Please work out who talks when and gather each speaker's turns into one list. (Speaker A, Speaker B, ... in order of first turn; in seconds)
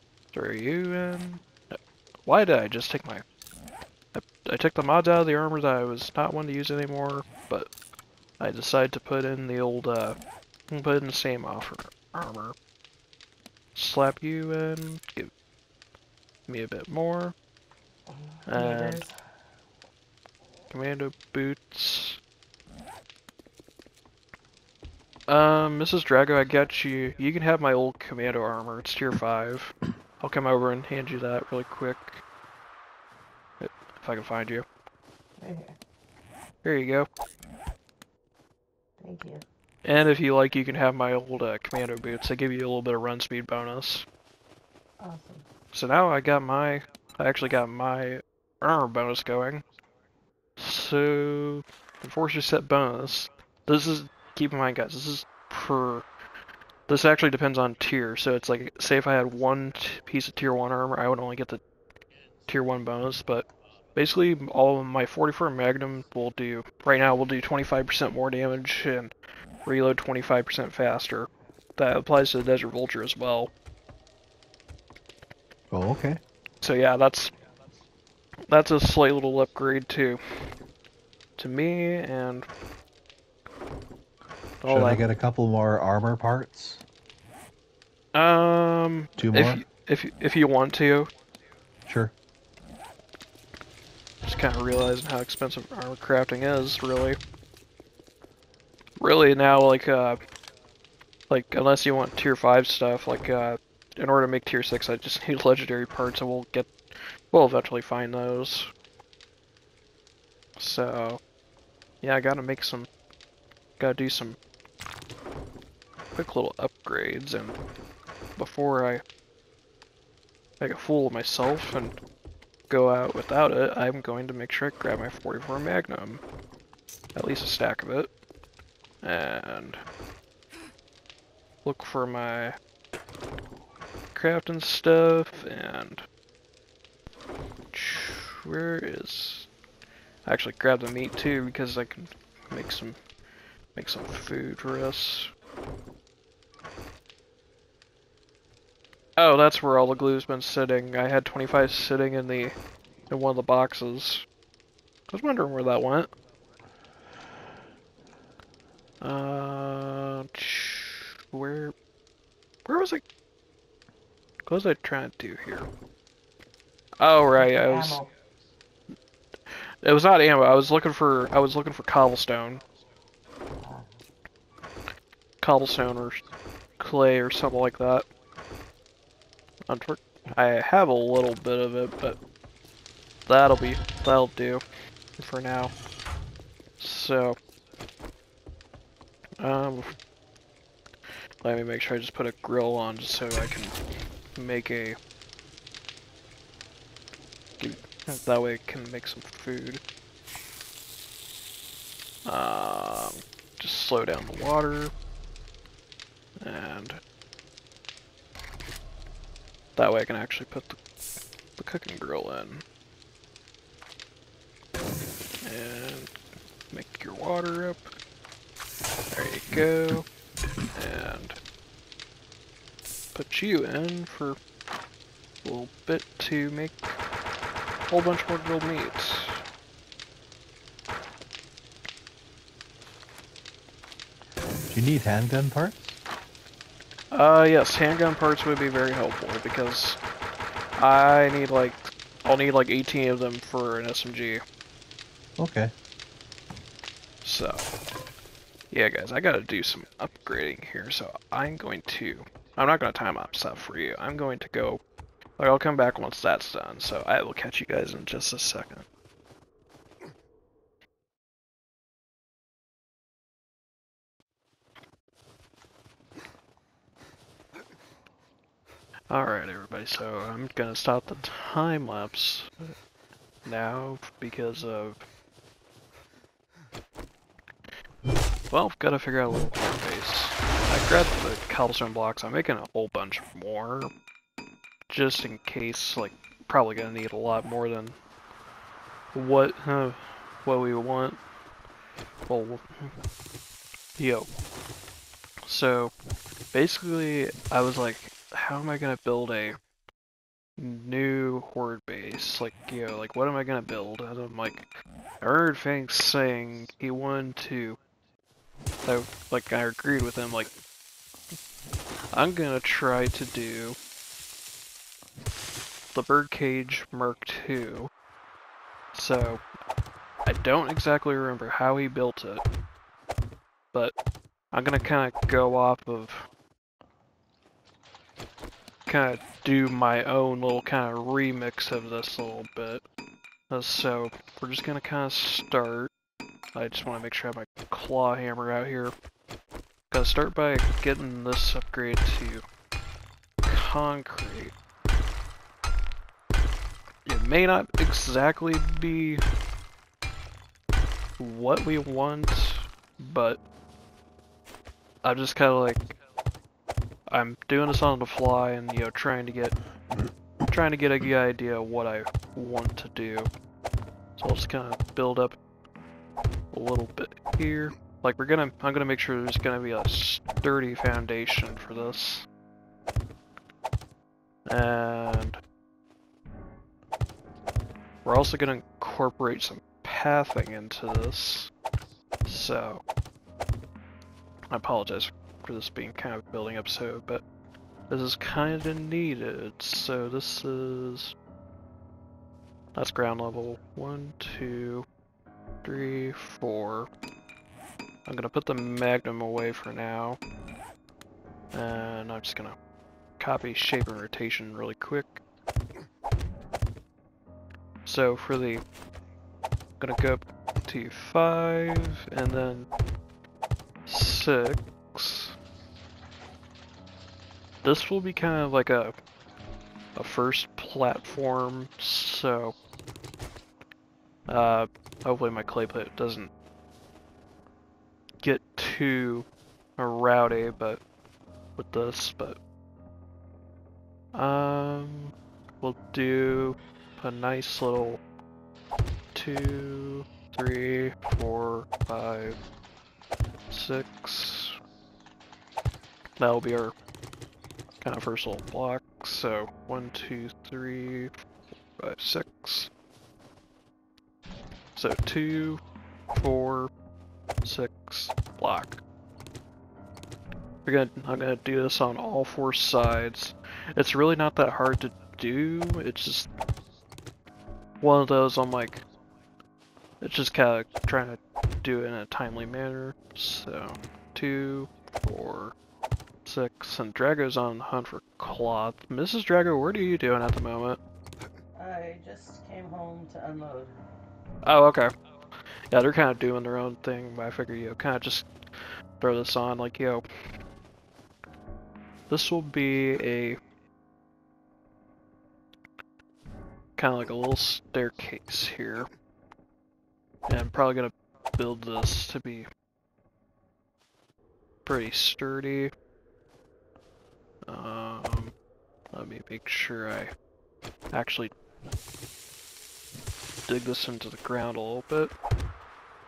Speaker A: 0.3-3.2, 4.1-7.7, 8.4-10.2, 10.7-12.5, 13.7-15.3, 16.5-17.3, 18.5-19.0, 20.7-22.2, 25.3-32.2, 33.6-34.6, 36.6-37.1, 39.8-44.0, 45.7-49.6, 50.6-56.0, 56.9-61.6, 62.5-69.1, 69.6-73.5, 76.6-77.3, 78.5-80.2, 81.4-82.5, 84.6-85.0, 88.1-91.1, 94.2-97.2, 99.0-100.2, 101.3-108.7, 110.6-111.2, 112.0-112.9, 113.8-114.4, 116.1-117.6, 118.4-119.0, 120.6-122.0, 122.7-126.2, 127.1-128.1, 129.0-129.8, 131.6-132.6, 134.1-136.0, 137.7-139.5, 140.2-143.0, 143.7-145.3, 149.2-152.5, 153.1-154.2, 155.1-156.1, 159.0-161.7, 162.7-163.0, 164.5-165.7, 167.0-168.0, 169.5-172.6, 175.4-176.2, 176.8-178.0, 179.7-182.2, 183.3-184.6, 185.2-185.7, 186.8-187.4, 189.4-189.9, 191.4-193.8, 194.3-195.0, 197.6-199.8, 202.2-204.9, 206.4-207.0, 209.8-210.8, 211.6-212.6, 215.4-216.1, 216.7-217.9, 219.1-220.1, 220.7-221.4, 223.1-224.4, 225.4-227.0, 227.9-229.4, 237.1-240.0, 240.8-244.4, 247.2-247.7, 248.7-254.8, 255.4-258.9, 269.1-272.7, 273.4-275.0, 278.5-283.9, 284.9-288.0, 289.1-291.2, 292.3-292.9, 294.0-294.3, 295.5-295.9, 296.5-299.6, 300.6-304.6, 305.2-307.8, 308.8-310.5, 312.1-313.8, 315.9-317.9, 318.9-319.4, 320.2-322.4, 324.5-326.3, 328.9-332.8, 333.5-335.9, 336.5-338.9, 339.9-342.4, 343.4-344.5, 347.1-349.2, 351.2-353.4, 355.0-355.9, 357.1-359.6, 360.5-363.3, 364.2-365.4, 366.5-372.3, 374.5-375.4, 378.0-381.5, 382.2-382.8, 384.5-387.2, 387.9-391.1, 392.7-394.9, 395.6-396.9, 398.1-400.2, 401.5-402.6, 403.2-405.2, 407.8-408.6, 409.8-412.7, 413.9-415.3, 417.6-418.9, 419.9-422.5, 424.3-426.3, 428.2-429.2, 429.8-430.8, 431.6-432.4, 434.1-438.0, 439.1-442.4, 443.5-444.6, 446.2-446.7, 447.8-451.1, 451.8-452.7, 454.8-455.6, 456.1-456.7, 457.4-458.8, 460.6-466.3, 467.8-468.8, 470.0-475.5, 476.2-480.8, 484.4-484.9, 485.7-488.3, 489.0-490.0, 492.1-493.4, 496.8-498.9, 500.3-502.5, 504.6-505.7, 507.4-508.3, 508.9-510.1, 510.9-511.3, 513.5-515.1
Speaker B: 18.1-19.1, 35.4-35.8, 39.0-39.4, 45.0-45.5, 167.4-168.1, 173.6-174.0, 481.6-483.8
Speaker C: 75.7-76.2, 84.6-86.8, 89.2-89.6, 91.9-92.1, 234.7-235.8, 245.4-245.7